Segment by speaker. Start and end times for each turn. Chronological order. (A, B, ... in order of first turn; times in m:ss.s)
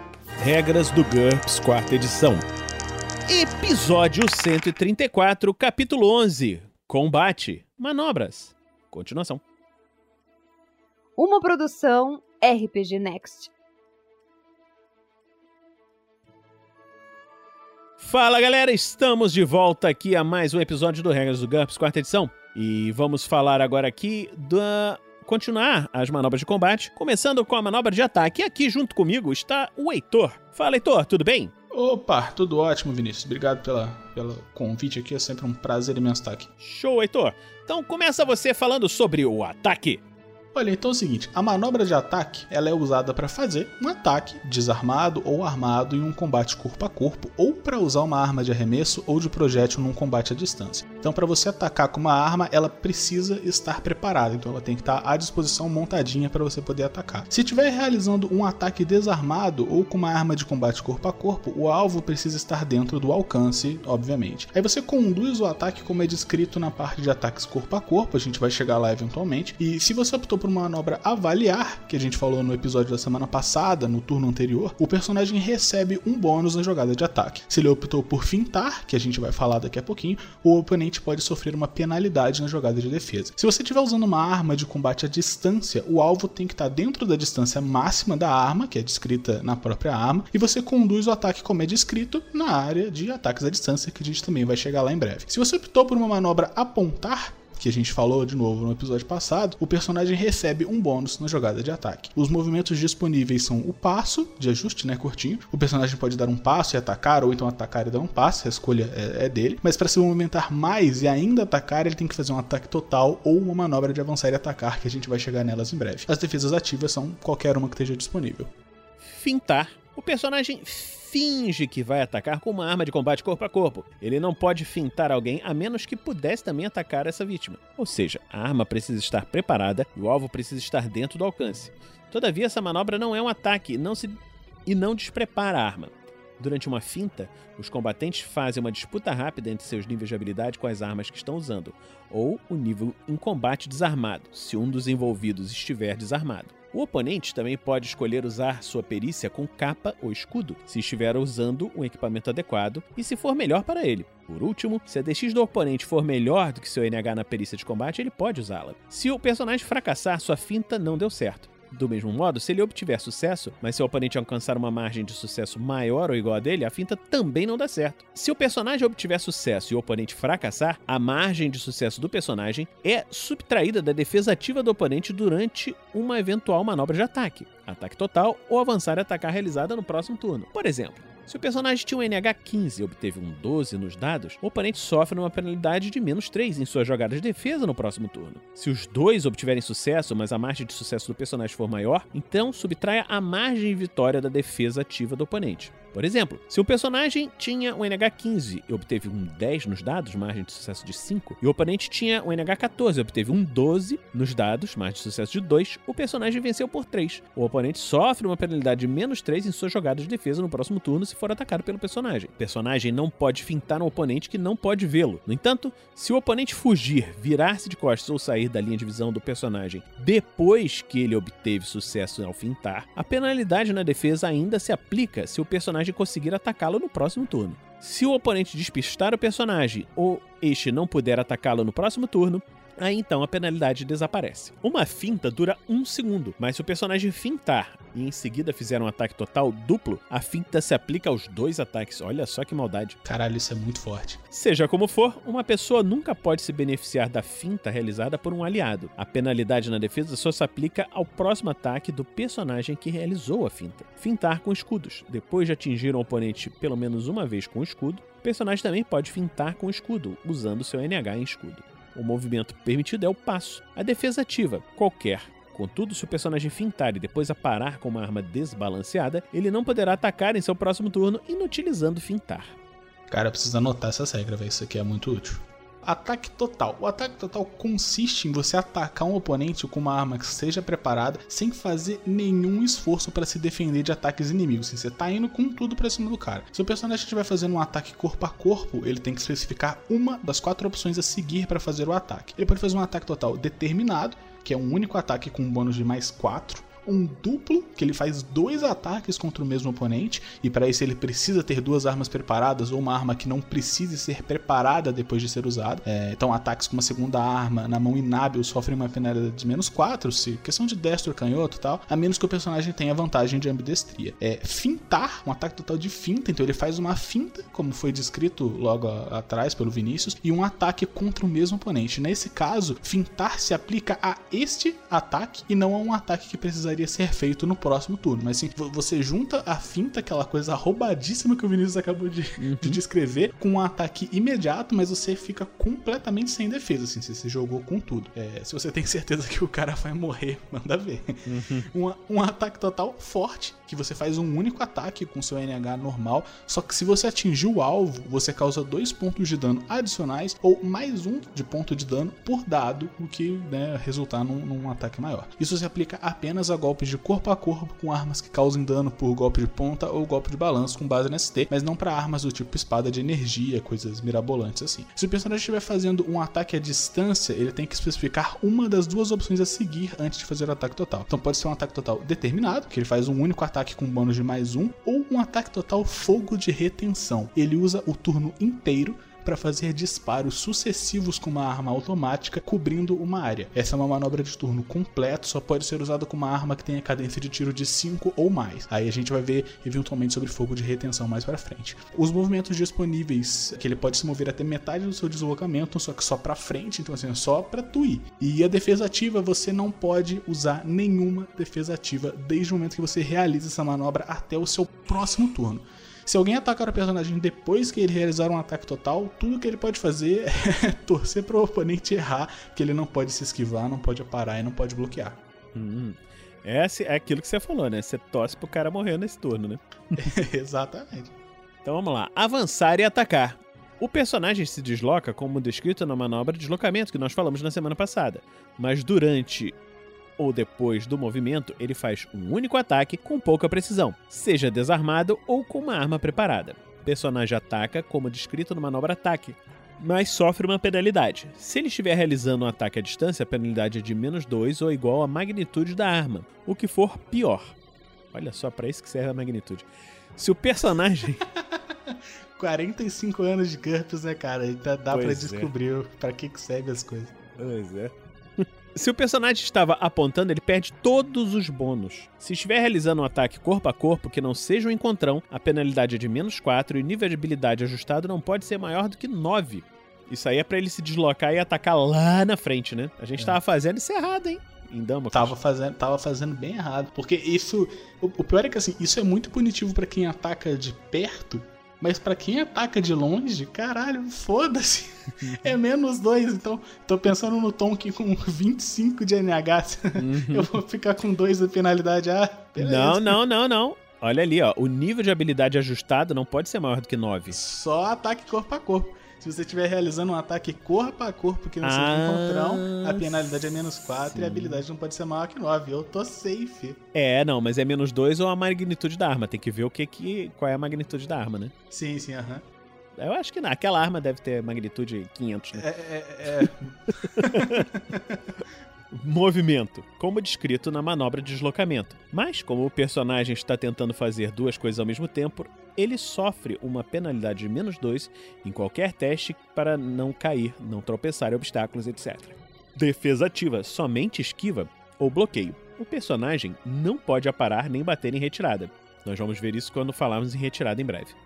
0:00.4-0:02.5 A
0:03.3-0:09.4 A
0:11.2-0:13.5 B
0:18.0-0:31.5 A
0:31.7-0:36.5 C
0:36.6-0:40.0 A
0:40.6-1:58.5 C
1:59.0-4:03.0 A
4:03.0-4:04.2 C
4:04.3-4:32.6 A
4:33.1-6:55.2 C
5:32.4-5:32.8 A
5:41.3-5:41.7 A
6:55.5-7:00.1 A
7:00.0-7:01.2 C
7:01.6-7:09.6 A
7:10.2-7:27.5 A
7:28.1-7:31.2 A
7:31.4-7:37.1 C
7:34.9-7:35.5 A
7:37.4-7:55.3 A
7:55.1-8:13.2 C
8:05.2-8:05.6 A
8:10.0-8:10.5 A
8:12.6-8:17.4 A
8:17.3-8:26.8 C
8:21.6-8:24.6 A
8:26.9-8:31.5 A
8:31.7-8:32.4 C
8:33.0-8:35.7 A
8:35.6-8:38.2 C
8:37.0-8:37.6 A
8:38.9-9:01.2 A